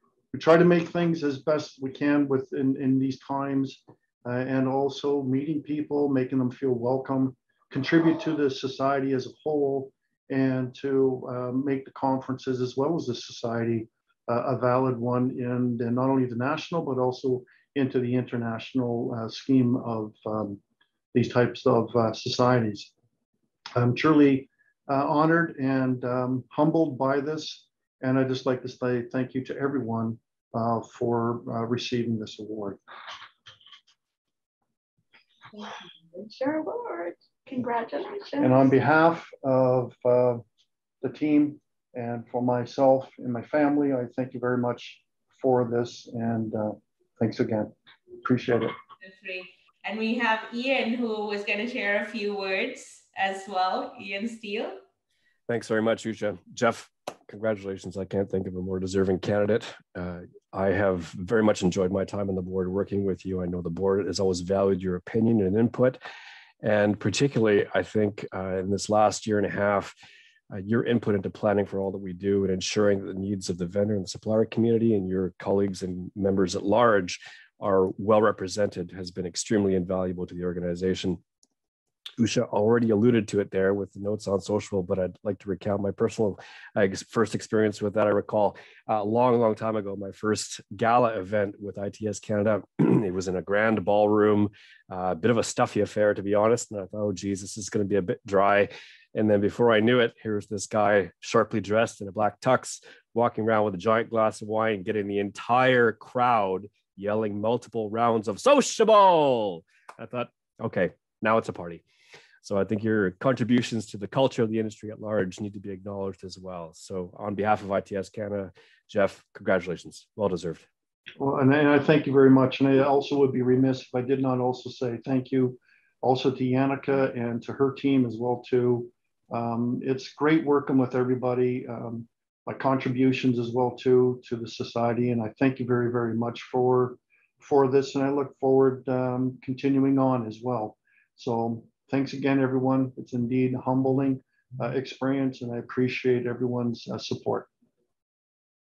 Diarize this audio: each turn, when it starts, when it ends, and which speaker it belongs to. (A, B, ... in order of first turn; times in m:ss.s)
0:00.3-0:20.6 A
0:21.1-0:22.9 A
0:23.8-0:32.8 A
0:35.5-0:38.6 B
0:38.4-0:40.4 A
0:41.0-0:48.8 A
0:49.0-0:54.8 C
0:55.5-1:06.0 D
1:06.6-1:09.9 D
1:10.5-1:21.2 D
1:22.2-1:51.8 D
1:52.4-2:00.6 D
2:01.2-2:27.5 A